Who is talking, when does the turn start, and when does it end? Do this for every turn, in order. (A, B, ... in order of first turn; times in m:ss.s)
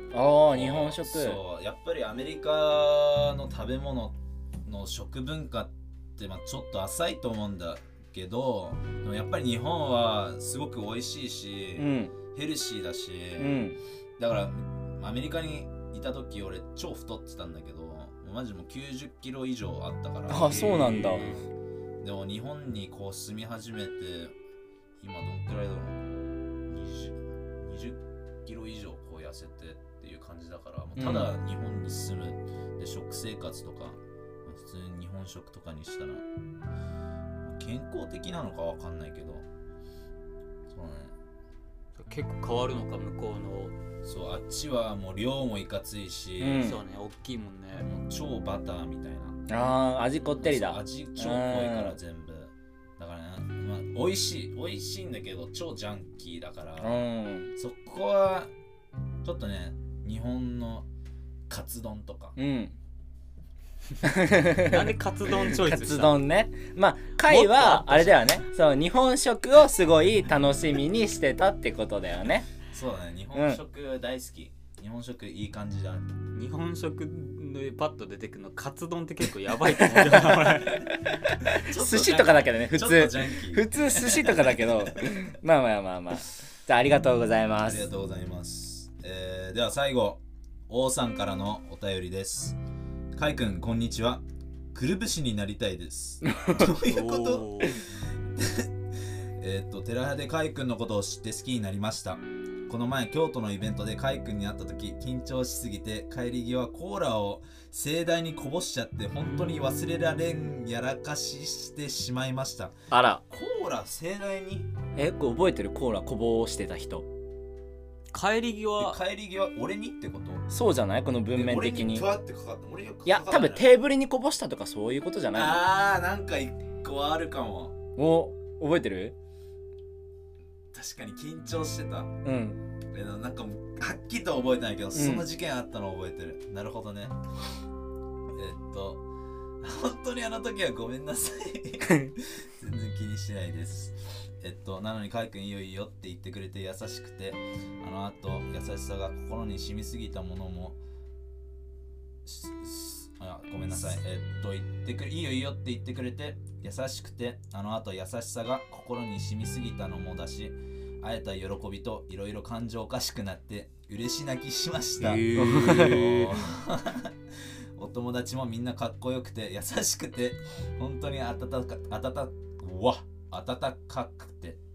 0:00.1-0:01.4 A
0:00.5-0:21.4 B
0:11.8-0:12.1 A
0:13.4-0:13.8 A
0:20.3-0:21.3 A
0:20.4-0:21.4 C
0:22.0-0:24.3 B
0:25.0-0:26.0 B
0:26.7-0:36.2 B
0:31.0-0:31.3 A
0:37.4-0:39.4 B
0:40.7-0:41.1 B
0:42.0-0:43.8 C
0:44.0-0:46.7 B
0:46.4-0:46.8 A
0:46.6-0:47.9 C
0:47.8-0:49.4 B
0:49.5-0:52.0 A
0:50.3-0:58.5 B
0:56.8-0:57.5 A
0:59.2-1:00.9 B
1:01.5-1:02.4 B
1:02.4-1:02.7 A
1:04.0-1:12.5 A
1:04.6-1:06.2 C
1:07.2-1:08.4 C
1:12.7-1:16.1 B
1:13.3-1:13.6 A
1:16.3-1:20.9 C
1:19.8-1:27.9 A
1:21.4-1:25.2 B
1:27.6-1:32.6 B
1:33.1-1:52.7 B
1:36.2-1:36.7 A
1:36.7-1:37.8 C
1:49.2-1:49.7 C
1:52.9-1:53.2 A
1:53.3-1:54.7 B
1:55.0-1:57.0 A
1:58.1-1:59.0 C
1:58.8-2:00.5 B
2:00.5-2:02.1 A
2:01.3-2:03.7 B
2:03.0-2:05.6 A
2:05.3-2:07.8 B
2:08.0-2:09.1 A
2:10.7-2:12.1 B
2:12.2-2:12.6 A
2:12.9-2:17.2 B
2:14.9-2:15.3 A
2:18.3-2:19.0 B
2:19.6-2:30.8 B
2:21.9-2:22.1 A
2:32.2-2:54.6 B
2:45.0-2:46.5 C
2:45.3-2:46.0 A